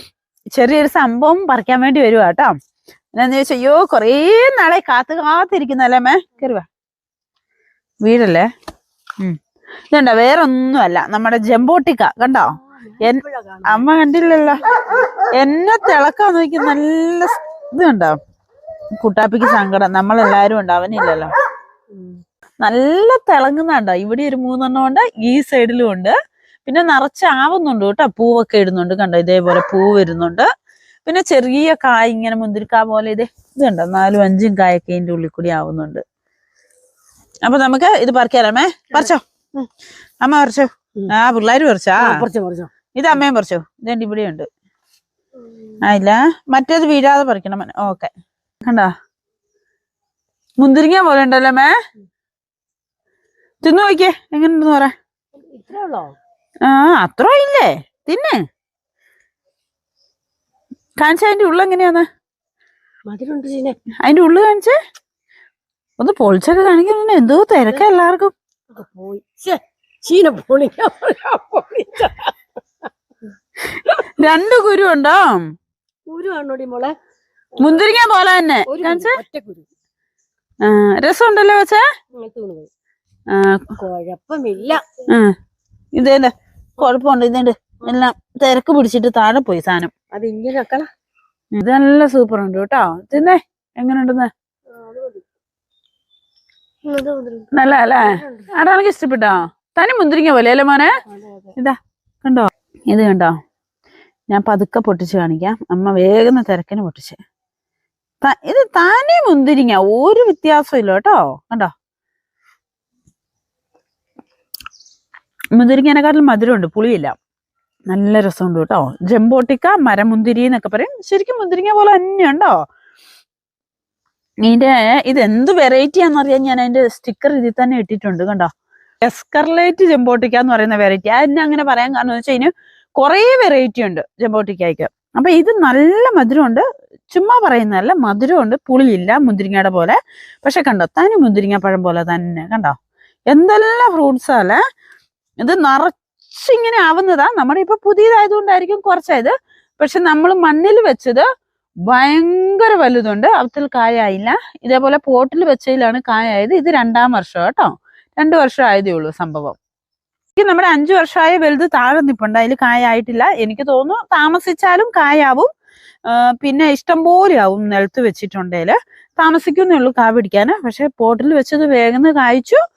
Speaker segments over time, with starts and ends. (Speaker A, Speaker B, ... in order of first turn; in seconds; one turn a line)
Speaker A: 0.5-2.5
Speaker A: 3.1-6.7
Speaker A: 8.0-8.5
Speaker A: 9.9-14.6
Speaker B: 12.5-15.3
Speaker A: 15.3-18.1
Speaker A: 19.0-21.3
Speaker B: 21.9-22.2
Speaker A: 22.6-26.1
Speaker A: 26.6-30.5
Speaker A: 31.1-36.0
Speaker A: 37.4-39.2
Speaker A: 40.2-42.2
Speaker B: 42.0-42.7
Speaker A: 43.0-44.5
Speaker A: 45.8-48.1
Speaker A: 48.6-48.9
Speaker A: 50.6-51.7
Speaker A: 53.6-54.9
Speaker B: 55.4-56.1
Speaker A: 56.6-58.4
Speaker A: 61.0-62.0
Speaker B: 63.1-63.8
Speaker A: 64.0-64.7
Speaker A: 66.0-68.3
Speaker B: 68.7-72.3
Speaker A: 73.7-75.4
Speaker B: 76.1-76.9
Speaker A: 77.6-79.2
Speaker B: 78.7-79.7
Speaker A: 80.6-81.8
Speaker B: 82.2-82.7
Speaker A: 83.3-83.7
Speaker B: 83.8-84.9
Speaker A: 86.0-89.9
Speaker B: 90.1-90.9
Speaker A: 91.5-94.3
Speaker B: 94.7-95.2
Speaker B: 96.8-98.5
Speaker A: 97.5-100.9
Speaker B: 101.1-101.5
Speaker A: 101.6-103.3
Speaker A: 104.3-107.2
Speaker A: 108.2-111.7
Speaker A: 115.5-117.1
Speaker A: 117.9-122.5
Speaker A: 124.4-128.5
Speaker A: 129.0-142.8
Speaker A: 143.3-144.6
Speaker A: 145.4-151.2
Speaker A: 151.9-159.6
Speaker A: 160.3-165.5
Speaker A: 166.1-172.6